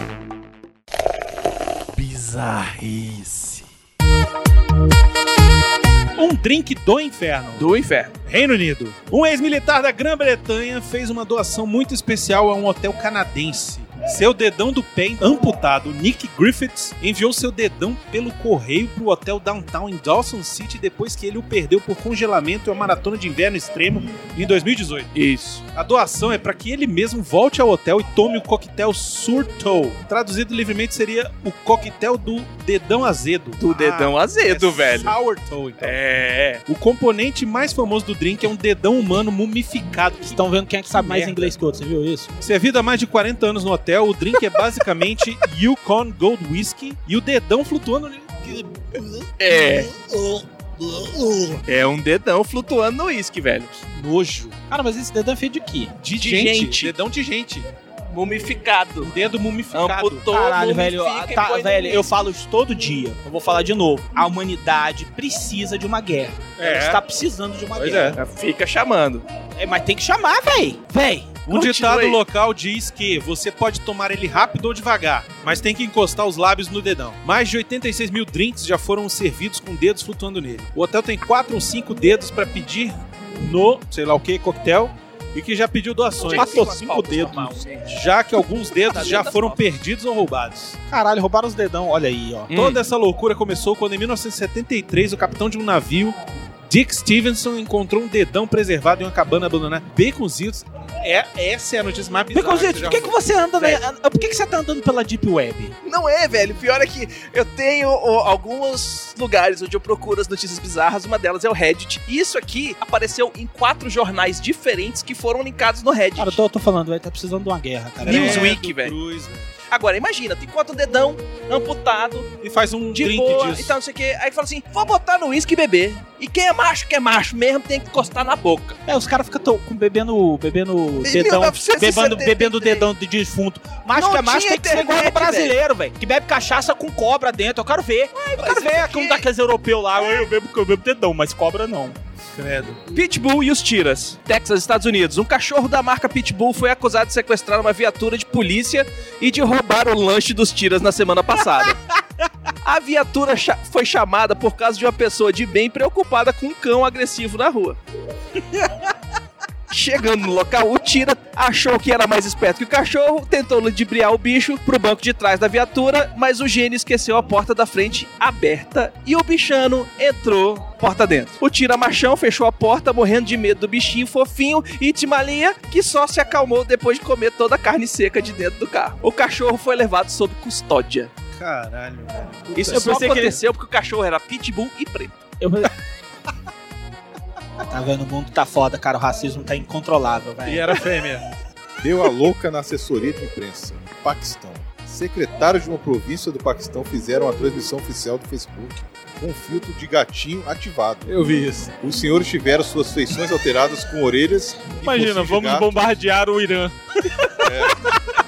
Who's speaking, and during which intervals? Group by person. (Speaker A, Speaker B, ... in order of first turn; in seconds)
Speaker A: 1.9-3.6, 6.2-7.7, 8.3-25.1, 25.7-36.0, 36.7-41.5, 42.4-51.6, 53.9-54.6, 56.0-57.7, 59.0-60.2, 66.6-67.0, 67.8-68.2, 71.5-90.8, 92.5-96.2, 96.7-103.2, 118.0-119.5, 122.4-123.8, 142.3-142.8, 181.3-183.4, 190.5-191.2, 201.1-201.7, 204.8-206.7
Speaker B: 7.6-8.1, 25.1-25.6, 33.6-35.2, 35.8-36.6, 49.4-49.9, 51.7-53.9, 56.2-56.9, 58.1-59.1, 59.7-62.1, 68.2-69.2, 71.5-72.2, 86.2-88.0, 88.7-89.6, 92.5-92.8, 105.8-116.4, 118.0-119.0, 119.7-122.3, 123.0-128.8, 131.0-132.9, 134.0-135.6, 138.2-139.3, 142.9-151.8, 152.6-157.8, 159.7-181.1, 182.6-185.2
Speaker C: 40.3-42.3, 54.7-55.9, 60.3-68.2, 69.6-71.4, 86.3-87.6, 90.9-92.5, 102.3-105.7, 116.2-118.6, 128.9-142.0, 182.7-183.4, 185.4-185.7, 187.7-190.7, 207.1-207.5
Speaker D: 191.8-201.2, 201.7-206.0, 207.4-207.9